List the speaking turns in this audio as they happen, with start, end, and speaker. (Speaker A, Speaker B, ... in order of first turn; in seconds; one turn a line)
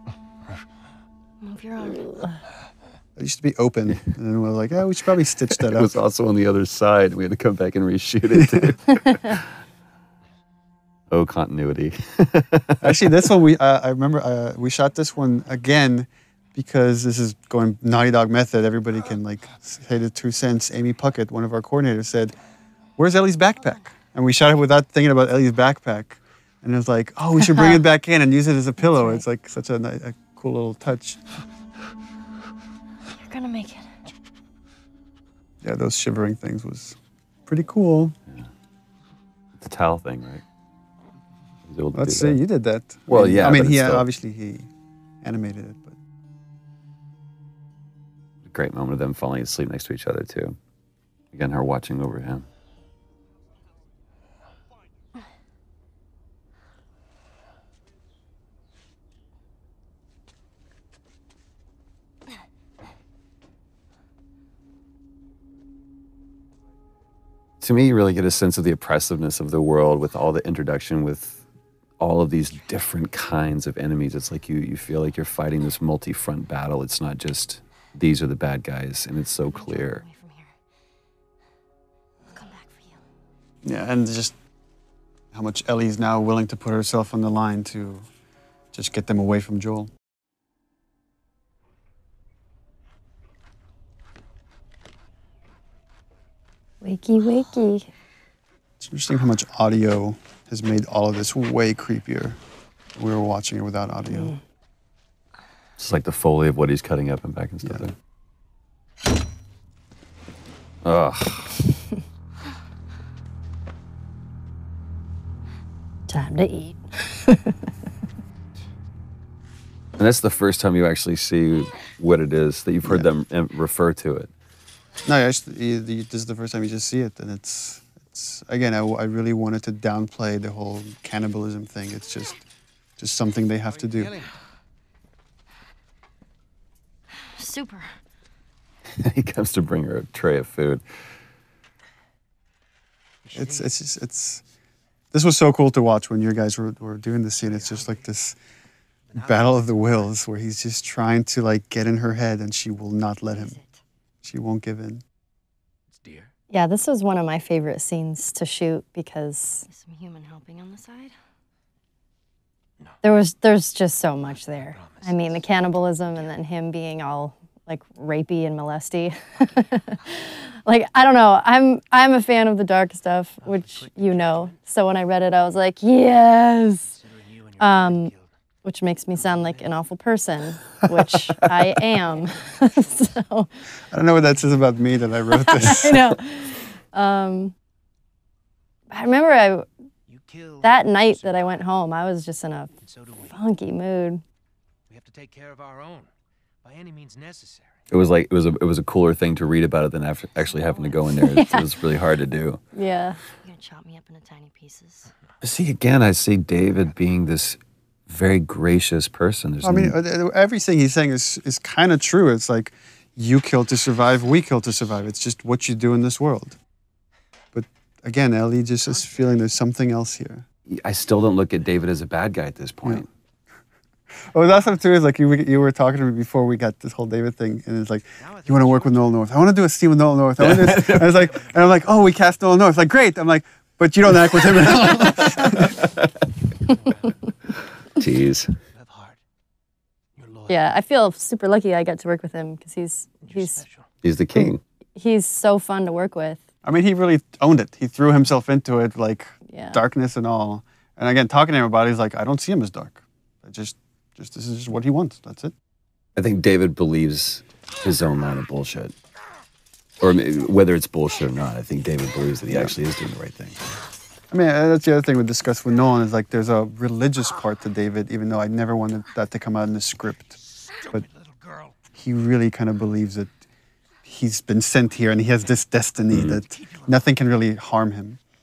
Speaker A: 1.4-2.3
Speaker B: 3.2-6.0
Speaker C: 5.5-9.5
Speaker B: 8.3-8.8
Speaker C: 11.1-13.0
Speaker B: 12.8-22.4
Speaker B: 23.0-31.2
Speaker D: 28.8-29.2
Speaker A: 33.2-33.8
Speaker B: 35.6-38.2
Speaker C: 39.6-40.4
Speaker C: 41.7-42.4
Speaker B: 41.9-44.7
Speaker C: 43.1-44.0
Speaker B: 45.2-46.0
Speaker C: 48.5-50.6
Speaker C: 51.3-52.5
Speaker C: 67.6-71.5
Speaker C: 72.0-80.0
Speaker A: 79.5-80.5
Speaker A: 82.3-83.0
Speaker B: 83.6-84.4
Speaker B: 85.3-88.1
Speaker B: 88.7-89.9
Speaker D: 96.8-97.9
Speaker B: 98.8-102.4
Speaker B: 103.0-104.3
Speaker D: 104.1-104.4
Speaker C: 105.8-107.9
Speaker C: 110.8-111.7
Speaker D: 116.1-117.6
Speaker C: 120.0-124.3
Speaker B: 125.0-132.5
Speaker B: 133.0-134.1
Speaker E: 133.7-134.4
Speaker A: 137.1-138.0
Speaker C: 139.0-140.8
Speaker E: 143.2-143.8
Speaker B: 143.3-144.4
Speaker B: 145.1-148.4
Speaker E: 147.4-148.1
Speaker E: 149.1-150.2
Speaker B: 149.2-153.6
Speaker A: 153.3-153.8
Speaker B: 154.2-155.0
Speaker E: 155.9-156.3
Speaker D: 156.5-159.7
Speaker A: 159.7-161.1
Speaker D: 163.0-177.0
Speaker E: 164.3-165.5
Speaker E: 166.0-166.4
Speaker E: 173.4-174.6
Speaker E: 176.9-178.3
Speaker D: 177.6-178.1
Speaker D: 178.6-183.5
Speaker E: 179.1-179.8
Speaker E: 182.3-182.8
Speaker B: 183.9-186.1
Speaker D: 185.3-187.6
Speaker D: 188.9-189.7
Speaker E: 190.1-191.7
Speaker D: 190.6-192.7
Speaker E: 192.8-193.4
Speaker D: 193.3-194.2
Speaker E: 194.9-196.1
Speaker E: 196.6-197.8
Speaker C: 197.9-202.6
Speaker A: 200.5-201.0
Speaker D: 201.2-201.7
Speaker D: 202.8-203.2
Speaker A: 203.4-205.1
Speaker C: 205.4-210.0
Speaker B: 209.6-216.6
Speaker B: 217.5-220.4
Speaker E: 218.9-219.4
Speaker C: 220.7-223.1
Speaker B: 224.3-235.8
Speaker E: 224.5-224.8
Speaker E: 228.2-229.3
Speaker C: 230.4-231.4
Speaker C: 234.4-236.1
Speaker E: 236.7-237.2
Speaker C: 238.0-238.6
Speaker E: 238.7-239.2
Speaker E: 240.2-240.7
Speaker D: 240.5-243.6
Speaker E: 243.2-243.9
Speaker C: 244.0-244.6
Speaker D: 245.0-246.4
Speaker B: 246.6-255.5
Speaker D: 249.5-249.8
Speaker C: 256.2-258.9
Speaker C: 260.0-263.6
Speaker B: 262.5-262.8
Speaker B: 264.3-270.4
Speaker E: 270.6-271.8
Speaker B: 271.9-273.4
Speaker B: 274.0-278.2
Speaker C: 276.1-276.4
Speaker E: 276.4-277.1